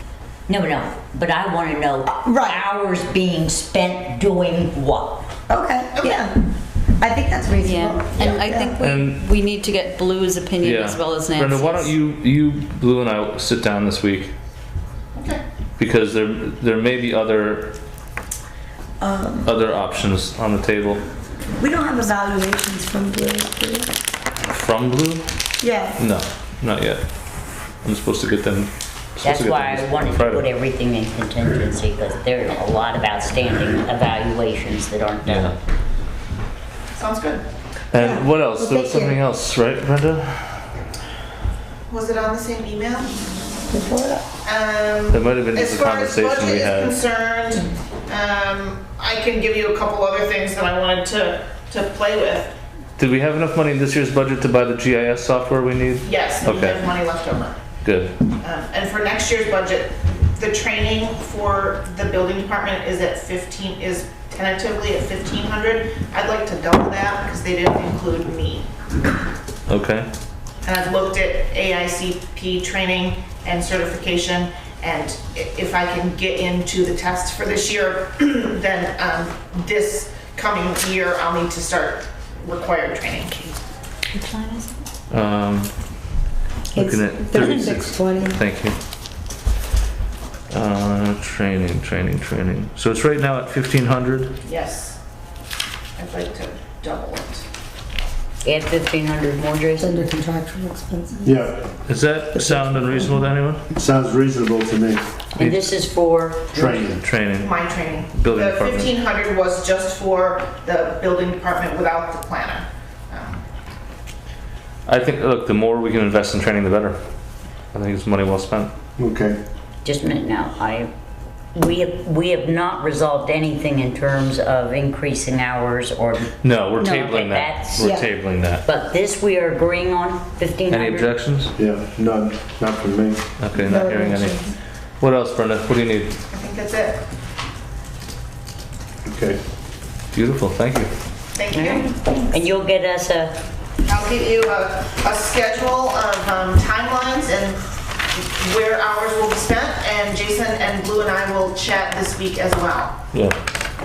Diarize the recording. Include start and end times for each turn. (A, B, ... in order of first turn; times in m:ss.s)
0:00.5-0:05.3 A
0:02.1-0:02.7 B
0:05.5-0:06.3 B
0:06.0-0:06.2 C
0:07.0-0:08.9 B
0:07.6-0:11.9 D
0:08.8-0:09.2 E
0:10.6-0:14.3 E
0:15.1-0:15.4 C
0:15.8-0:17.7 E
0:19.0-0:19.5 B
0:19.4-0:21.0 E
0:21.6-0:23.9 B
0:24.5-0:25.3 E
0:25.6-0:26.0 B
0:26.0-0:27.0 E
0:27.8-0:30.5 E
0:29.2-0:35.5 A
0:35.3-0:35.5 E
0:36.9-0:37.5 C
0:37.9-0:40.7 E
0:37.9-0:39.2 B
0:41.9-0:43.1 C
0:43.7-0:44.2 B
0:44.4-0:52.5 C
0:45.1-0:47.0 E
0:53.0-0:56.9 E
0:56.0-0:57.6 C
0:57.8-0:58.2 E
0:58.4-1:08.7 C
1:09.7-1:10.1 E
1:10.6-1:23.5 C
1:25.1-1:25.7 E
1:26.7-1:28.4 B
1:26.8-1:28.8 E
1:30.5-1:34.3 E
1:34.4-1:35.0 C
1:36.0-1:37.5 C
1:38.4-1:39.9 A
1:39.8-1:41.5 B
1:41.2-1:41.6 F
1:41.9-1:43.6 E
1:42.4-1:43.1 B
1:43.7-1:45.0 F
1:45.4-1:46.9 A
1:45.4-1:45.7 E
1:46.5-1:47.0 F
1:47.0-1:49.0 E
1:47.4-1:53.4 C
1:54.9-1:57.0 E
1:57.7-1:58.7 E
1:59.0-1:59.4 F
1:59.8-2:00.9 A
2:01.6-2:08.0 A
2:06.4-2:08.6 E
2:07.8-2:08.1 B
2:08.5-2:11.1 A
2:10.7-2:11.5 E
2:11.6-2:13.3 F
2:13.4-2:14.4 E
2:13.6-2:14.5 B
2:15.0-2:16.2 E
2:16.3-2:17.0 C
2:19.1-2:19.4 F
2:20.1-2:20.9 E
2:21.4-2:21.9 C
2:21.5-2:23.4 A
2:23.8-2:33.0 C